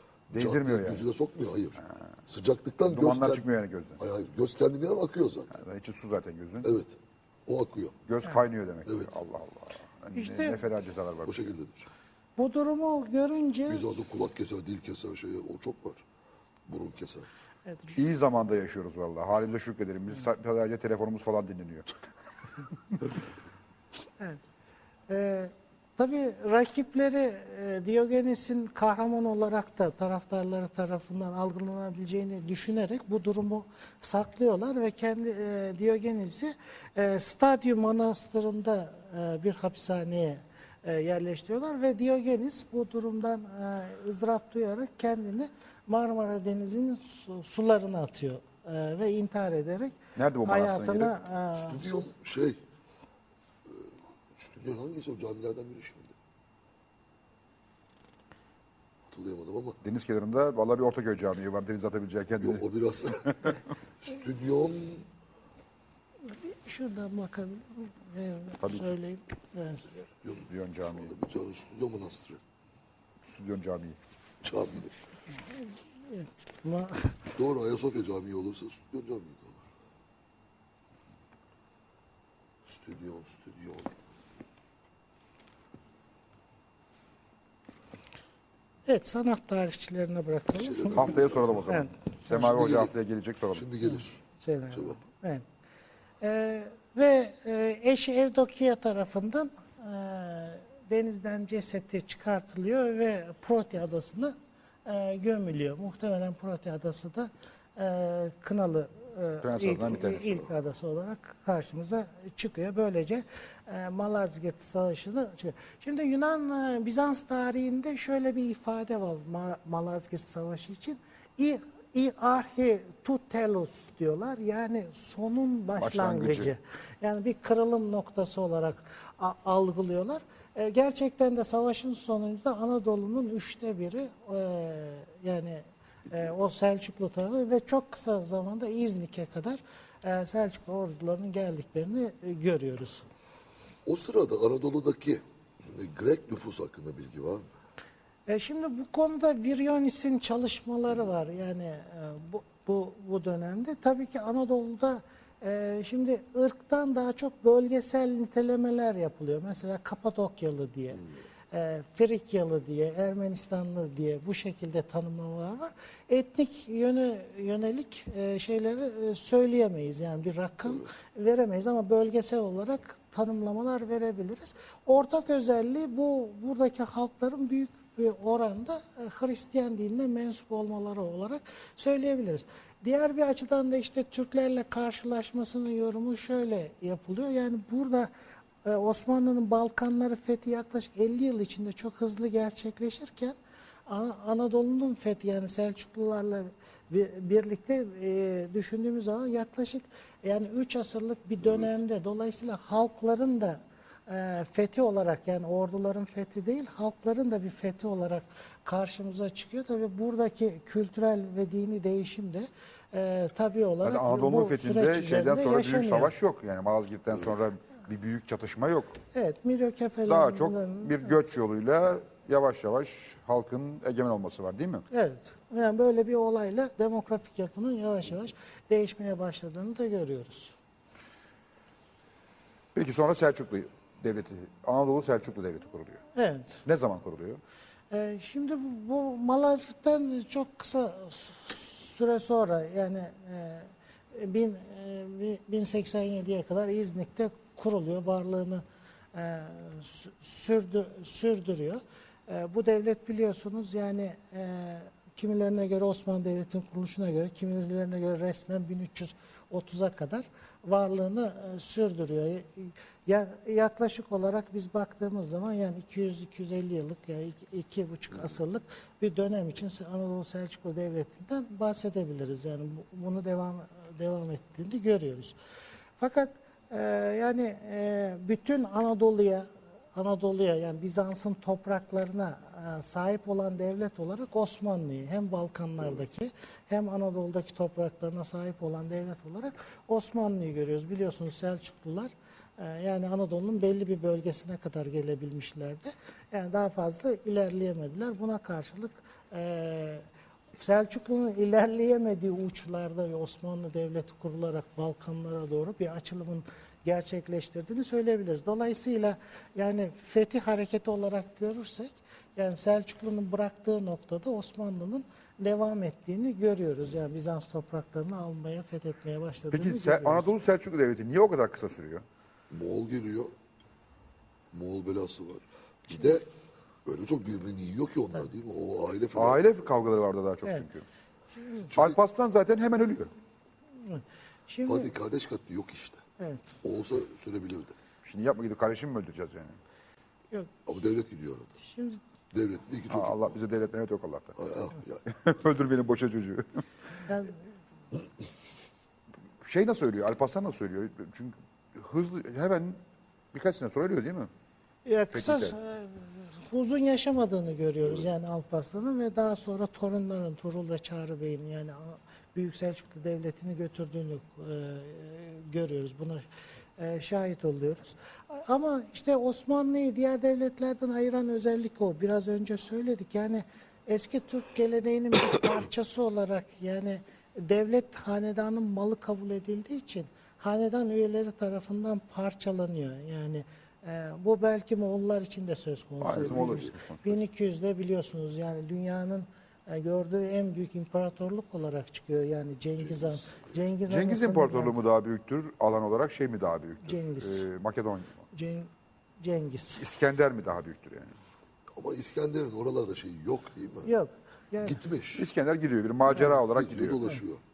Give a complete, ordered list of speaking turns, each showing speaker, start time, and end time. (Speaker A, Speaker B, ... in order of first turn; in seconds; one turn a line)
Speaker A: 0.3-1.0
Speaker B: 0.3-3.4
Speaker A: 1.8-2.1
Speaker A: 2.9-4.0
Speaker B: 4.0-5.6
Speaker A: 5.5-6.7
Speaker B: 6.6-8.0
Speaker A: 8.1-11.5
Speaker B: 8.8-9.1
Speaker C: 10.1-10.6
Speaker B: 11.2-11.9
Speaker C: 12.4-13.8
Speaker B: 13.7-16.0
Speaker B: 16.7-17.3
Speaker C: 17.6-18.0
Speaker A: 17.9-21.9
Speaker C: 25.1-52.0
Speaker A: 50.1-51.2
Speaker B: 51.5-52.6
Speaker B: 53.7-56.1
Speaker B: 59.1-59.8
Speaker A: 59.8-63.6
Speaker B: 62.4-63.3
Speaker B: 64.0-65.1
Speaker C: 66.2-70.0
Speaker A: 68.6-68.9
Speaker B: 70.2-72.4
Speaker A: 70.4-71.1
Speaker A: 73.2-74.0
Speaker B: 74.4-75.0
Speaker C: 75.4-77.3
Speaker B: 77.3-79.6
Speaker B: 82.7-84.0
Speaker C: 88.8-91.9
Speaker B: 90.5-92.9
Speaker A: 90.9-93.7
Speaker B: 93.5-95.0
Speaker C: 93.9-95.4
Speaker C: 96.2-143.1
Speaker A: 109.4-110.5
Speaker A: 125.8-126.5
Speaker B: 143.8-147.5
Speaker C: 148.3-188.1
Speaker C: 188.6-216.1
Speaker A: 213.8-219.0
Speaker C: 219.1-221.1
Speaker A: 220.1-224.8
Speaker C: 224.9-230.5
Speaker A: 232.7-236.0
Speaker C: 236.1-236.6
Speaker A: 236.6-237.4
Speaker C: 237.9-275.4
Speaker C: 276.0-300.0
Speaker C: 300.6-320.3
Speaker A: 319.5-322.0
Speaker B: 322.5-323.3
Speaker B: 324.5-326.3
Speaker B: 326.8-329.6
Speaker A: 329.1-330.8
Speaker B: 331.7-332.0
Speaker A: 331.7-333.1
Speaker C: 333.8-334.9
Speaker B: 334.6-336.0
Speaker C: 336.2-336.5
Speaker B: 336.6-337.7
Speaker A: 338.0-339.6
Speaker B: 340.6-341.5
Speaker C: 341.6-342.0
Speaker B: 342.3-343.4
Speaker A: 342.9-344.4
Speaker B: 344.4-345.0
Speaker A: 345.0-346.6
Speaker C: 347.1-347.4
Speaker A: 349.4-352.8
Speaker A: 353.3-354.3
Speaker C: 354.8-366.3
Speaker A: 355.1-355.6
Speaker C: 366.8-394.7
Speaker A: 386.0-387.2
Speaker B: 386.1-386.7
Speaker B: 392.9-393.6
Speaker A: 393.9-398.2
Speaker C: 396.8-397.5
Speaker C: 398.3-399.8
Speaker A: 399.7-401.1
Speaker B: 401.7-403.9
Speaker C: 403.8-404.8
Speaker B: 404.6-405.3
Speaker A: 405.1-407.2
Speaker B: 406.2-407.4